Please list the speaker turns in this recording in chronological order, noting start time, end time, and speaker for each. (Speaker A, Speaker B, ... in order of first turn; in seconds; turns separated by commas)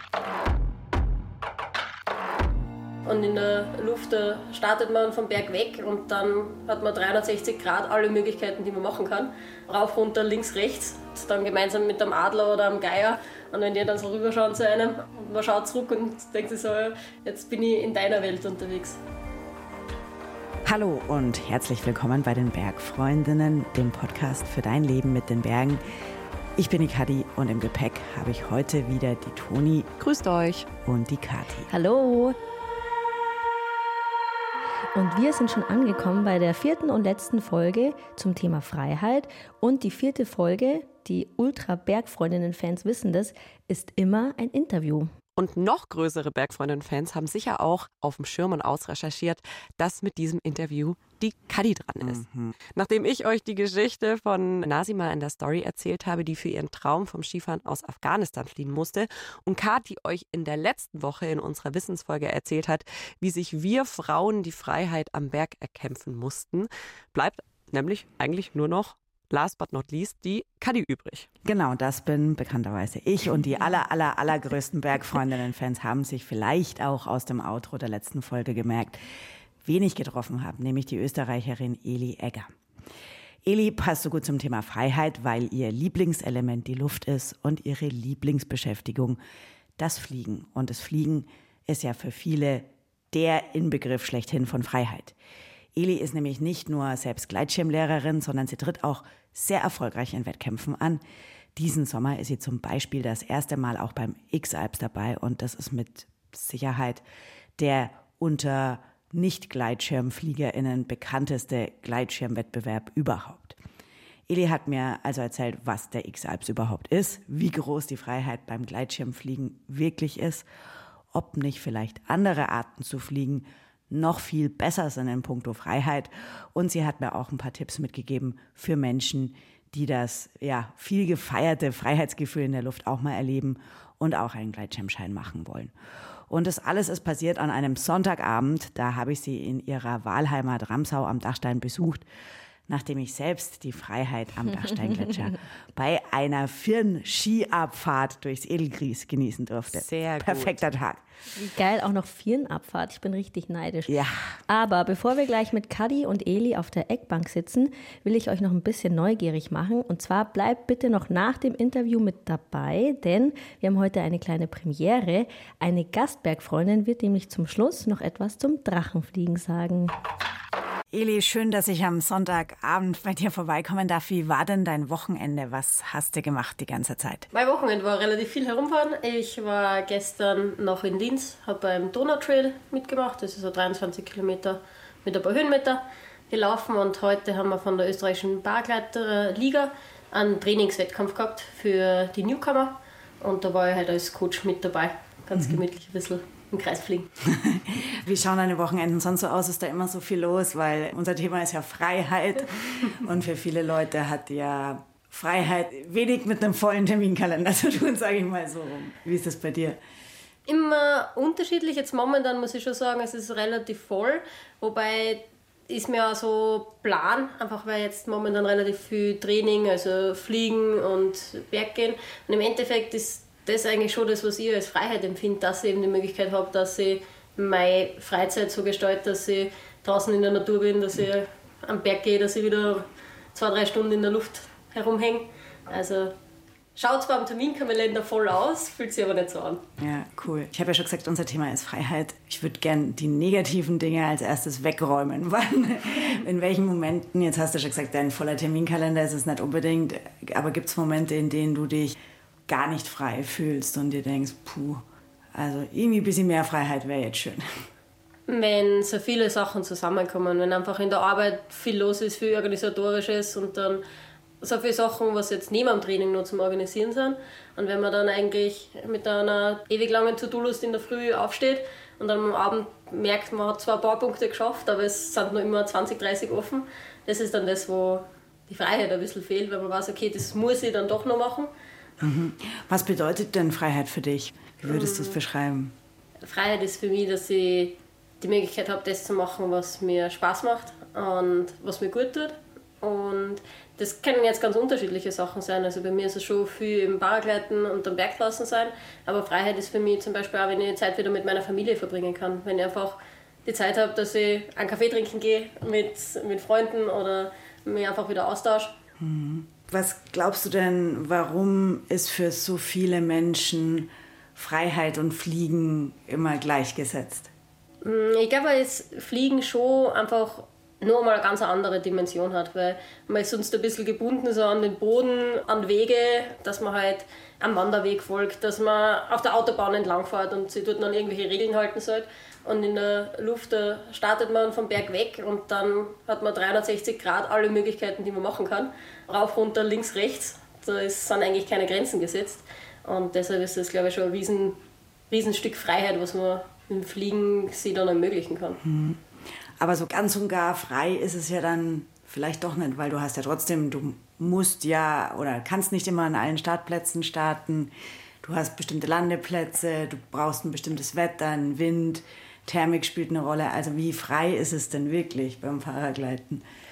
Speaker A: 3.0-19.0, Speaker B: 20.6-25.8, Speaker B: 26.6-29.9, Speaker C: 30.0-30.7, Speaker B: 30.8-31.7, Speaker D: 31.7-32.4, Speaker D: 34.9-45.1, Speaker C: 45.4-52.2, Speaker B: 52.0-52.5, Speaker C: 52.7-71.3, Speaker B: 71.4-79.0, Speaker B: 79.6-82.5, Speaker B: 83.4-89.2, Speaker B: 89.8-95.2, Speaker B: 95.7-101.0, Speaker B: 101.5-107.0, Speaker B: 107.6-113.6, Speaker B: 114.3-120.5, Speaker B: 121.1-135.7, Speaker B: 136.3-142.1, Speaker B: 142.7-151.0, Speaker C: 149.7-150.6, Speaker D: 151.3-153.9, Speaker B: 153.9-154.4, Speaker D: 154.5-169.9, Speaker B: 170.9-177.3, Speaker A: 177.3-197.1, Speaker B: 197.2-209.8, Speaker A: 210.5-236.1, Speaker A: 236.8-239.6, Speaker B: 239.8-251.9, Speaker B: 252.5-254.8, Speaker B: 255.3-257.6, Speaker A: 258.3-263.8, Speaker A: 264.4-281.5, Speaker B: 282.0-285.7, Speaker A: 284.6-285.2, Speaker A: 286.2-308.8, Speaker B: 309.0-317.3, Speaker A: 317.8-344.6, Speaker A: 345.1-348.6, Speaker B: 348.6-349.0, Speaker B: 349.6-366.4